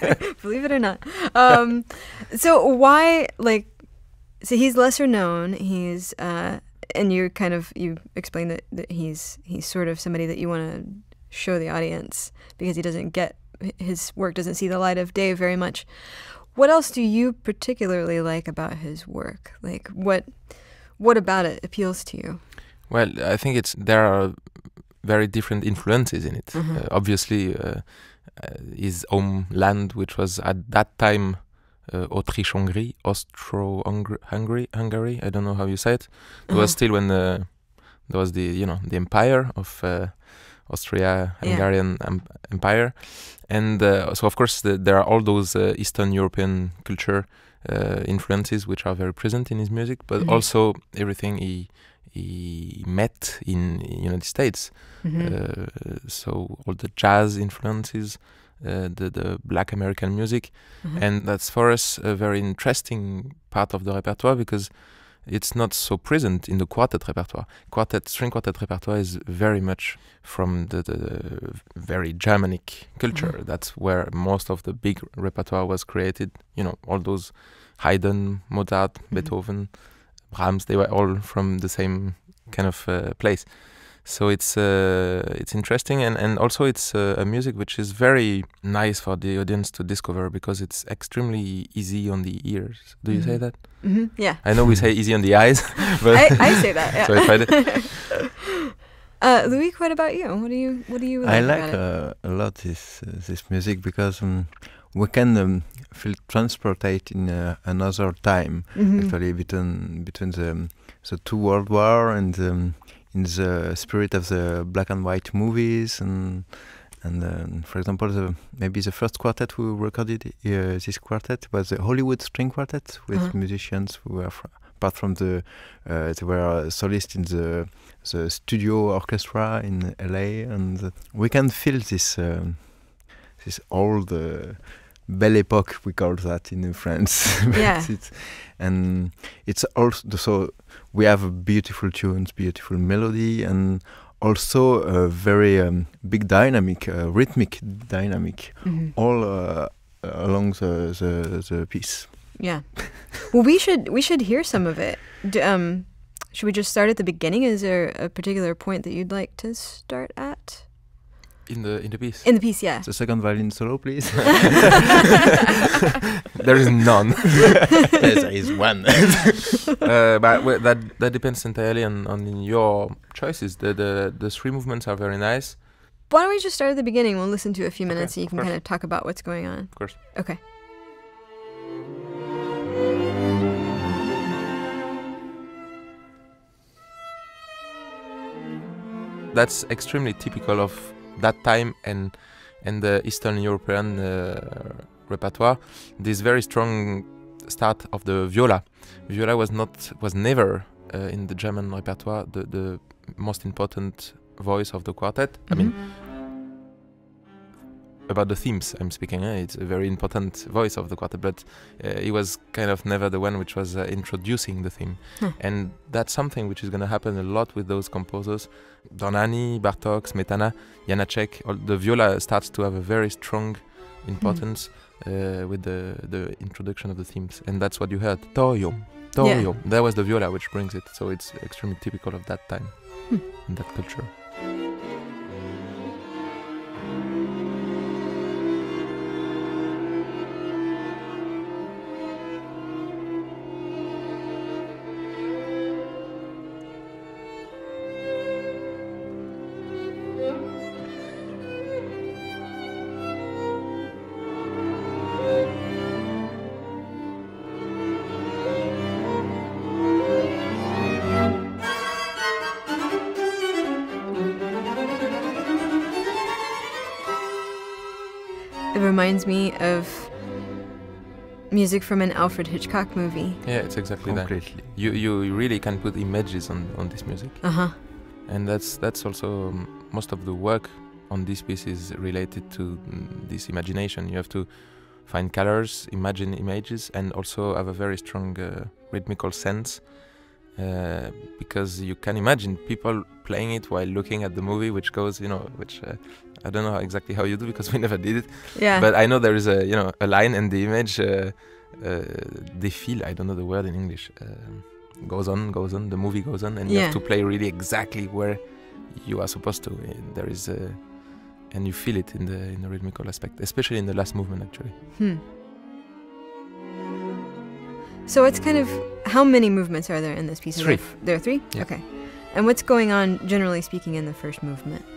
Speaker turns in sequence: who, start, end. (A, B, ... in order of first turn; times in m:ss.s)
0:00.4-0:22.4 A
0:22.9-1:38.1 B
0:26.5-0:26.8 A
0:36.5-0:36.8 A
0:41.4-0:41.7 A
0:55.0-0:55.3 A
1:33.1-1:34.8 A
1:36.1-1:38.1 A
1:39.2-1:41.8 A
1:41.2-2:32.6 C
1:48.7-1:49.1 A
2:17.5-2:17.9 A
2:28.6-2:28.9 A
2:32.3-2:40.7 A
2:41.4-2:42.4 B
2:42.2-2:42.9 A
2:42.8-2:44.9 C
2:46.4-2:48.0 B
2:47.9-2:49.4 C
2:49.7-2:55.6 B
2:56.1-3:00.4 A
2:57.9-3:00.0 B
3:09.3-3:25.8 B
3:25.5-3:25.7 A
3:28.1-3:54.1 B
3:49.2-3:49.5 A
4:28.7-4:30.2 A
4:31.5-4:33.4 A
4:33.4-5:14.7 B
4:34.0-4:35.0 C
4:37.4-4:37.8 A
4:58.5-4:58.9 A
5:06.7-5:07.0 A
5:18.0-5:24.8 A
5:20.5-5:21.7 B